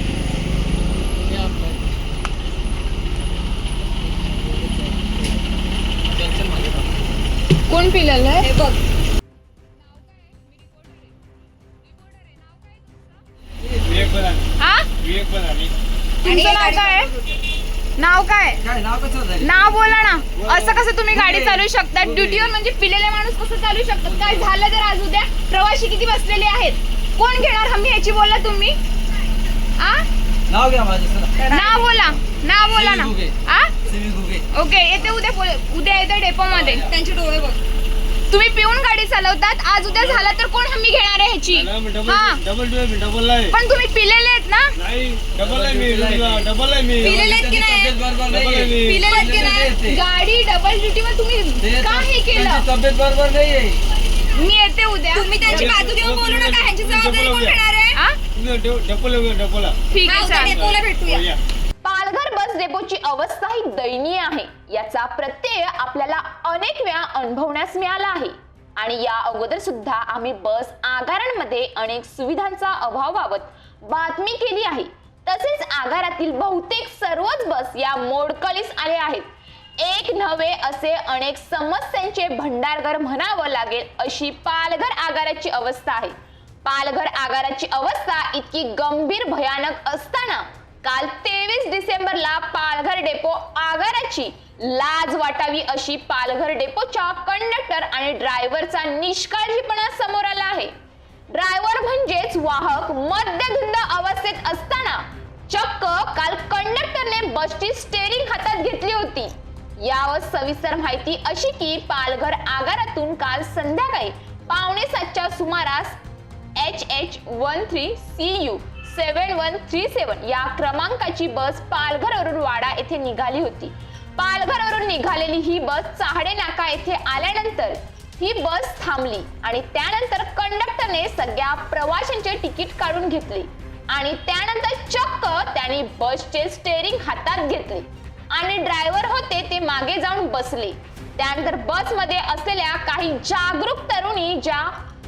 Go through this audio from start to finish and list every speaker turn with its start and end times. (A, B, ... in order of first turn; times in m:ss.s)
0:06.2-0:06.7 A
0:07.7-0:08.5 B
0:08.4-0:08.8 C
0:13.7-0:14.0 A
0:13.9-0:15.7 D
0:14.6-0:14.9 B
0:16.2-0:17.1 B
0:16.2-0:17.1 C
0:18.0-0:18.6 B
0:18.6-0:19.6 A
0:19.4-0:28.8 B
0:20.4-0:22.5 A
0:24.0-0:24.5 A
0:29.8-0:30.1 B
0:30.5-0:31.4 A
0:31.4-0:32.0 C
0:31.5-0:33.7 B
0:32.7-0:34.5 A
0:34.5-0:36.8 B
0:36.5-0:36.9 A
0:36.8-0:37.6 C
0:38.3-0:42.4 B
0:40.0-0:40.2 D
0:41.5-0:43.5 D
0:43.5-0:44.8 B
0:44.8-0:47.4 D
0:45.4-0:46.4 A
0:47.0-0:50.0 A
0:47.0-0:47.9 C
0:48.3-0:49.1 D
0:48.8-0:52.6 B
0:49.0-0:49.3 C
0:50.4-0:52.0 E
0:51.6-0:53.8 A
0:54.3-0:55.7 B
0:55.1-0:58.0 C
0:55.4-0:57.6 D
0:58.3-1:01.4 D
0:59.9-1:00.6 B
1:00.0-1:01.3 C
1:00.1-1:00.5 E
1:01.8-1:26.1 E
1:26.6-1:40.7 E
1:41.3-1:56.0 E
1:56.6-2:24.7 E